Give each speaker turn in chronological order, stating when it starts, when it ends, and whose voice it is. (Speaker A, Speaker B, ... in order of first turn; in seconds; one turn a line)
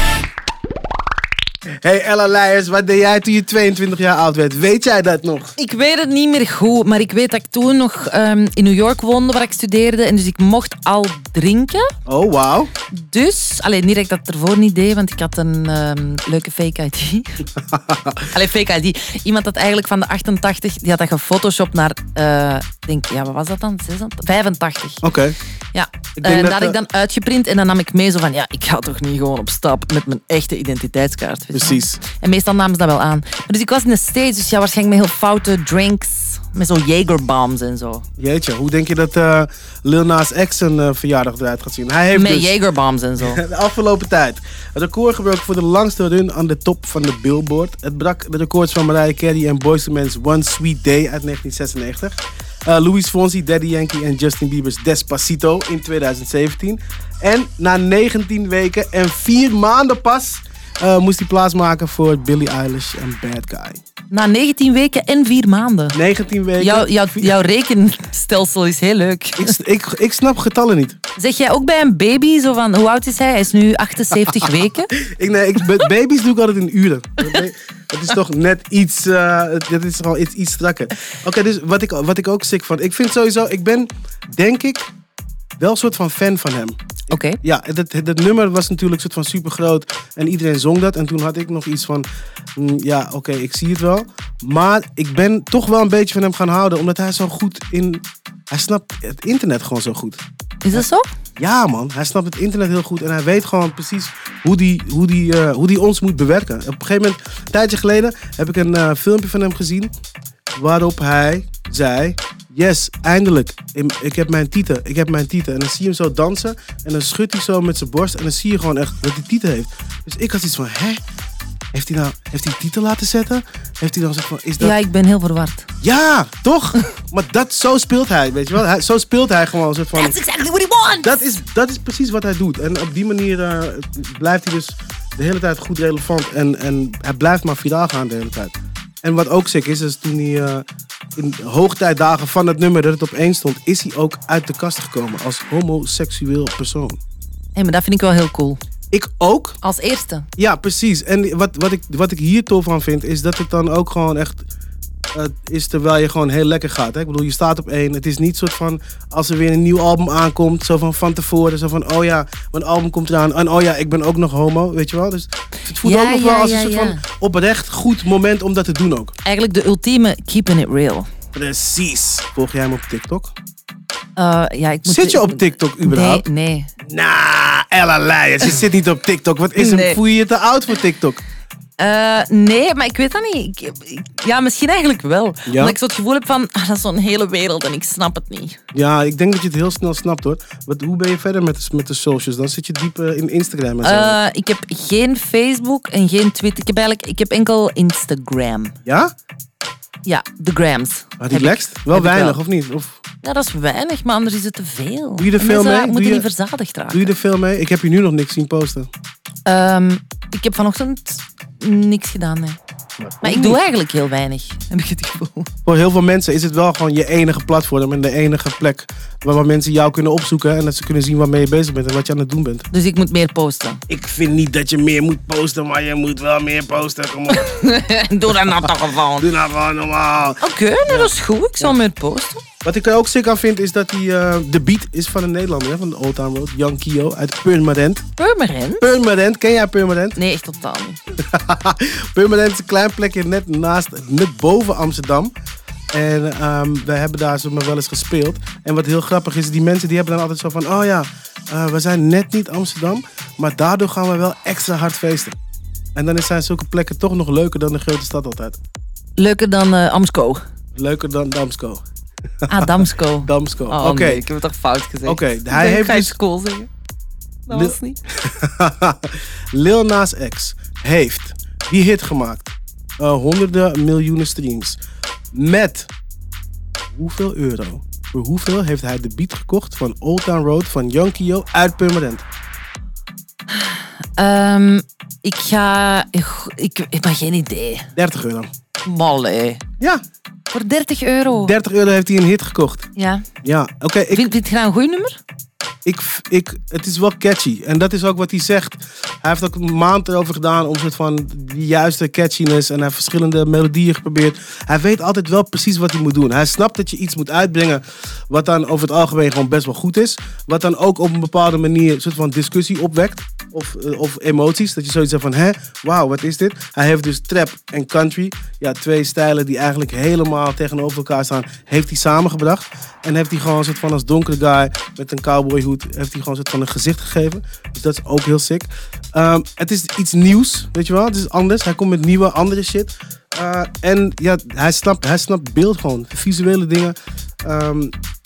Speaker A: 1.8-5.5
Speaker B: 5.6-11.8
Speaker A: 12.1-12.7
Speaker B: 12.9-17.4
Speaker A: 17.6-18.3
Speaker B: 18.3-25.1
Speaker A: 25.0-25.4
Speaker B: 25.7-38.0
Speaker A: 26.2-26.8
Speaker A: 31.5-32.0
Speaker A: 38.2-42.5
Speaker B: 42.1-43.4
Speaker A: 43.2-63.8
Speaker B: 64.1-66.0
Speaker A: 65.9-67.3
Speaker B: 66.6-69.5
Speaker A: 69.4-71.0
Speaker B: 71.2-74.9
Speaker A: 75.0-84.9
Speaker A: 85.6-86.8
Speaker B: 87.1-87.4
Speaker A: 87.4-100.2
Speaker B: 100.6-101.1
Speaker A: 101.4-109.9
Speaker A: 110.5-121.0
Speaker A: 121.7-124.8
Speaker B: 124.6-125.7
Speaker A: 125.8-130.2
Speaker B: 129.9-131.2
Speaker A: 131.0-140.6
Speaker A: 141.2-147.0
Speaker B: 147.6-148.6
Speaker A: 148.9-149.6
Speaker B: 149.6-150.3
Speaker A: 150.4-154.5
Speaker A: 155.1-169.1
Speaker B: 165.8-167.0
Speaker B: 169.2-171.1
Speaker A: 171.3-173.3
Speaker B: 174.2-176.7
Speaker A: 174.8-176.2
Speaker A: 176.8-181.2
Speaker B: 179.5-180.0
Speaker B: 181.8-188.6
Speaker A: 185.4-185.8
Speaker A: 188.7-194.2
Speaker B: 193.8-198.8
Speaker A: 198.8-199.1
Speaker B: 200.0-202.4
Speaker A: 201.2-203.0
Speaker B: 203.2-207.2
Speaker A: 205.2-206.3
Speaker A: 206.9-208.9
Speaker B: 209.4-212.6
Speaker A: 213.0-213.6
Speaker B: 213.2-215.5
Speaker A: 215.7-222.7
Speaker B: 222.7-223.8
Speaker A: 223.9-227.5
Speaker B: 227.3-229.3
Speaker A: 229.2-231.8
Speaker B: 230.4-232.4
Speaker A: 232.6-238.0
Speaker B: 238.2-238.9
Speaker A: 238.8-240.2
Speaker B: 240.2-241.0
Speaker A: 241.2-245.3
Speaker A: 245.9-255.3
Speaker A: 255.9-258.6
Speaker B: 259.2-260.4
Speaker A: 260.7-261.8
Speaker A: 262.4-264.2
Speaker B: 262.5-266.7
Speaker A: 265.0-266.1
Speaker B: 267.5-268.0
Speaker A: 267.5-274.8
Speaker A: 275.3-275.9
Speaker A: 276.9-282.2
Speaker B: 283.5-287.9
Speaker A: 287.9-288.5
Speaker B: 288.8-289.6
Speaker B: 290.5-291.6
Speaker A: 291.3-292.9
Speaker B: 292.9-293.2
Speaker A: 293.4-294.3
Speaker B: 294.1-295.2
Speaker A: 295.8-337.9